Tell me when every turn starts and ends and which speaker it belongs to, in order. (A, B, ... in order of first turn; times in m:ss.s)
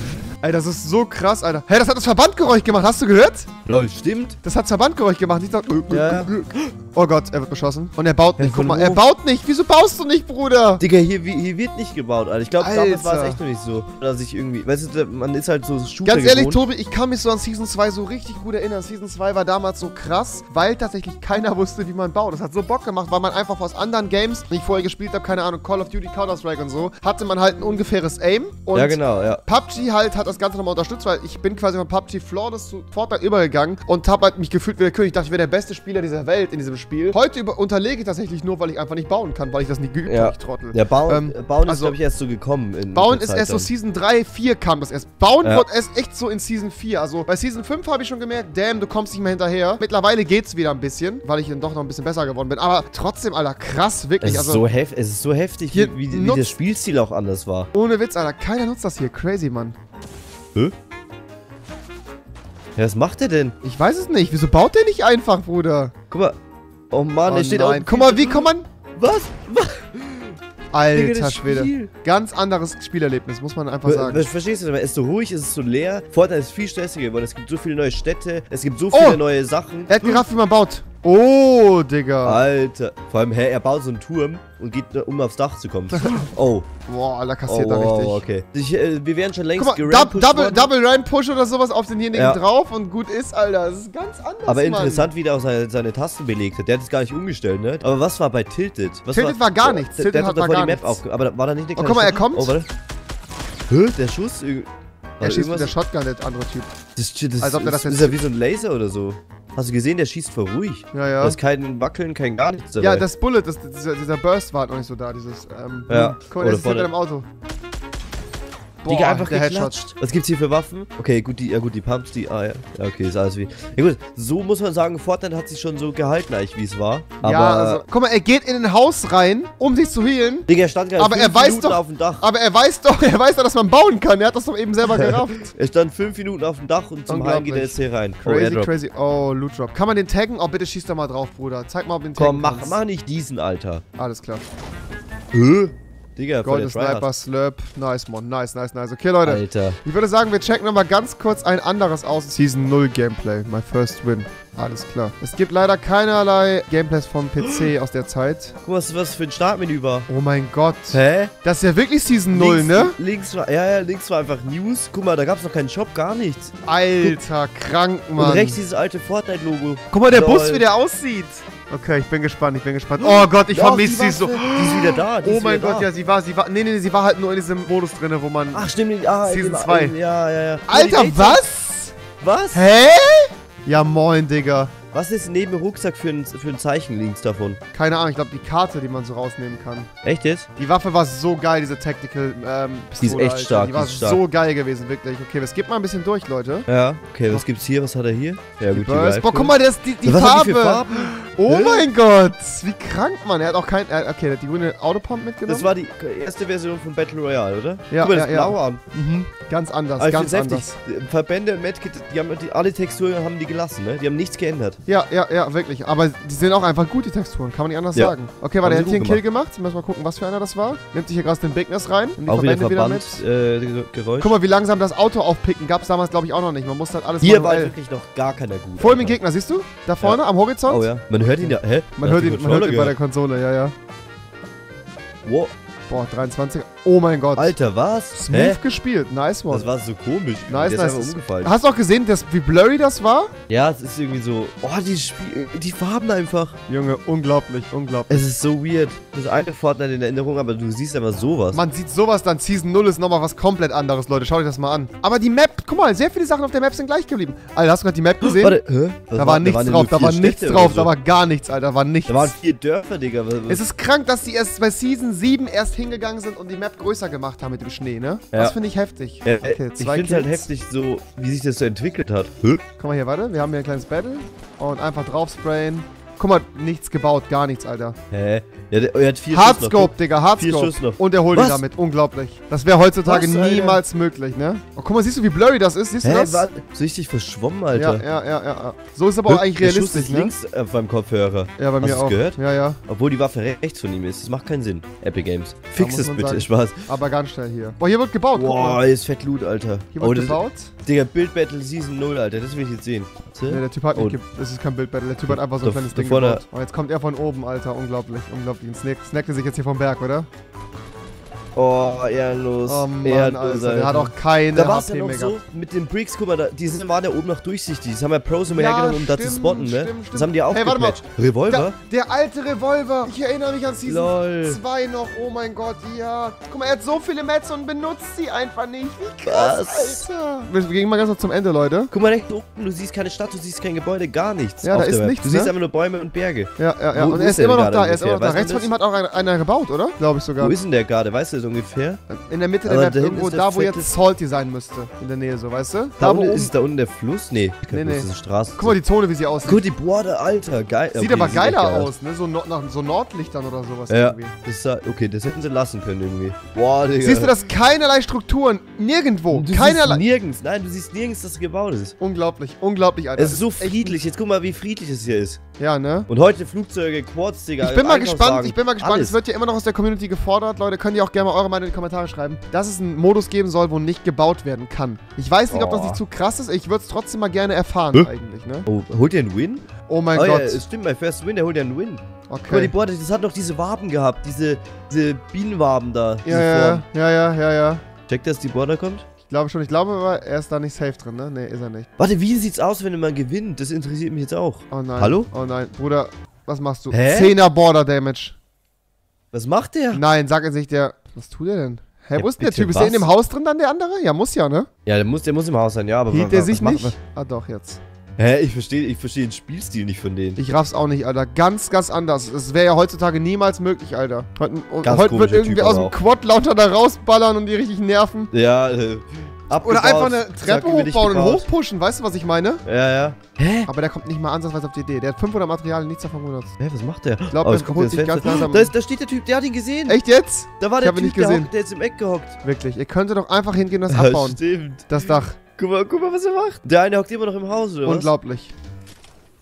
0:00.4-0:03.5 A
0:03.7-0:04.4 B
0:04.4-0:10.8 A
0:05.9-0:06.7 B
0:08.4-0:09.1 B
0:10.8-0:16.6 B
0:12.6-0:13.4 A
0:16.0-0:42.0 A
0:28.7-0:29.4 B
0:40.1-0:43.7 B
0:42.9-0:54.7 A
0:54.2-0:57.7 B
0:55.7-0:56.5 A
0:57.7-0:59.8 A
1:02.8-1:03.6 B
1:03.6-1:05.9 A
1:06.1-1:06.4 B
1:06.9-1:10.4 B
1:07.3-1:08.7 A
1:10.7-1:14.3 A
1:10.9-1:11.9 B
1:13.8-1:20.2 B
1:18.9-1:19.2 A
1:19.9-1:22.4 A
1:22.2-1:26.7 B
1:25.9-1:26.3 A
1:26.9-1:28.2 A
1:27.5-1:30.7 B
1:29.6-1:35.1 A
1:32.1-1:32.4 B
1:34.5-1:42.7 B
1:39.1-1:41.0 A
1:41.8-1:42.6 A
1:43.7-1:45.7 B
1:45.2-1:46.7 A
1:47.0-1:53.1 B
1:47.4-1:48.2 A
1:50.9-1:51.4 A
1:52.8-1:57.3 A
1:55.9-1:56.9 B
1:58.8-1:59.8 A
1:58.9-2:07.8 B
2:07.2-2:15.5 A
2:10.5-2:12.2 B
2:14.9-2:18.7 B
2:17.1-2:22.8 A
2:22.2-2:23.8 B
2:24.0-2:24.5 A
2:25.3-2:27.1 B
2:26.4-2:38.6 A
2:29.2-2:29.8 B
2:38.6-2:40.1 B
2:40.1-2:43.0 A
2:40.9-2:41.3 B
2:42.3-2:47.2 B
2:46.7-2:48.6 A
2:48.2-2:50.7 B
2:49.9-2:58.7 A
2:53.0-2:55.9 B
2:58.5-3:01.4 B
2:59.2-3:00.0 A
3:00.7-3:02.0 A
3:02.2-3:02.6 B
3:02.5-3:04.7 A
3:04.9-3:07.6 B
3:07.7-3:09.9 A
3:10.0-3:10.5 B
3:10.6-3:16.7 A
3:13.0-3:14.2 B
3:16.7-3:21.9 B
3:18.7-3:25.7 A
3:25.5-3:28.8 B
3:27.9-3:30.7 A
3:30.0-3:34.8 B
3:34.9-3:43.2 A
3:38.0-3:39.2 B
3:42.3-3:44.4 B
3:44.2-3:47.7 A
3:47.2-3:49.2 B
3:48.8-3:50.9 A
3:50.0-3:53.0 B
3:51.4-3:53.7 A
3:55.2-3:55.5 B
3:55.9-3:57.5 A
3:57.4-3:58.6 B
3:58.1-3:59.7 A
3:59.5-4:01.5 B
4:00.5-4:03.3 A
4:03.5-4:06.6 B
4:06.7-4:08.3 A
4:08.1-4:11.6 B
4:11.5-4:18.6 A
4:18.2-4:20.9 B
4:19.2-4:22.3 A
4:22.1-4:23.6 B
4:23.5-4:30.5 A
4:29.2-4:32.6 B
4:32.8-4:38.0 A
4:38.1-4:41.6 B
4:39.3-4:46.5 A
4:43.0-4:43.8 B
4:46.0-4:48.0 B
4:47.7-4:50.3 A
4:49.3-4:56.8 B
4:51.6-4:52.8 A
4:55.8-4:58.8 A
4:58.4-5:04.2 B
4:59.9-5:00.7 A
5:03.5-5:10.3 A
5:05.3-5:06.4 B
5:11.6-5:21.8 B
5:12.6-5:15.4 A
5:18.5-5:31.9 A
5:23.9-5:24.6 B
5:29.2-5:30.0 B
5:31.9-5:38.7 B
5:34.6-5:35.5 A
5:36.6-5:40.6 A
5:40.4-5:42.0 B
5:42.1-5:46.5 A
5:42.6-5:43.9 B
5:46.0-5:48.8 B
5:47.7-5:49.6 A
5:49.4-5:51.9 B
5:50.9-5:54.4 A
5:53.9-5:57.4 B
5:57.0-6:00.0 A
5:59.3-6:02.0 B
6:02.0-6:04.0 A
6:03.2-6:05.4 B
6:05.6-6:06.1 A
6:06.1-6:09.2 B
6:07.6-6:18.7 A
6:15.5-6:16.0 B
6:18.7-6:26.8 B
6:19.9-6:20.6 A
6:22.3-6:22.7 A
6:26.2-6:27.8 A
6:28.1-6:29.0 B
6:29.3-6:31.9 A
6:32.0-6:35.3 B
6:34.7-6:38.4 A
6:36.9-6:37.4 B
6:39.3-6:40.0 B
6:39.9-6:44.7 A
6:42.2-6:43.1 B
6:44.9-6:47.0 B
6:46.1-6:47.8 A
6:48.2-6:50.4 B
6:50.4-6:58.3 A
6:54.8-6:56.0 B
6:58.3-7:01.5 B
6:59.6-7:02.6 A
7:02.6-7:03.7 B
7:03.7-7:06.6 A
7:06.6-7:10.0 B
7:07.3-7:08.7 A
7:09.9-7:11.5 A
7:10.6-7:12.4 B
7:12.4-7:15.4 A
7:13.9-7:18.1 B
7:17.8-7:18.5 A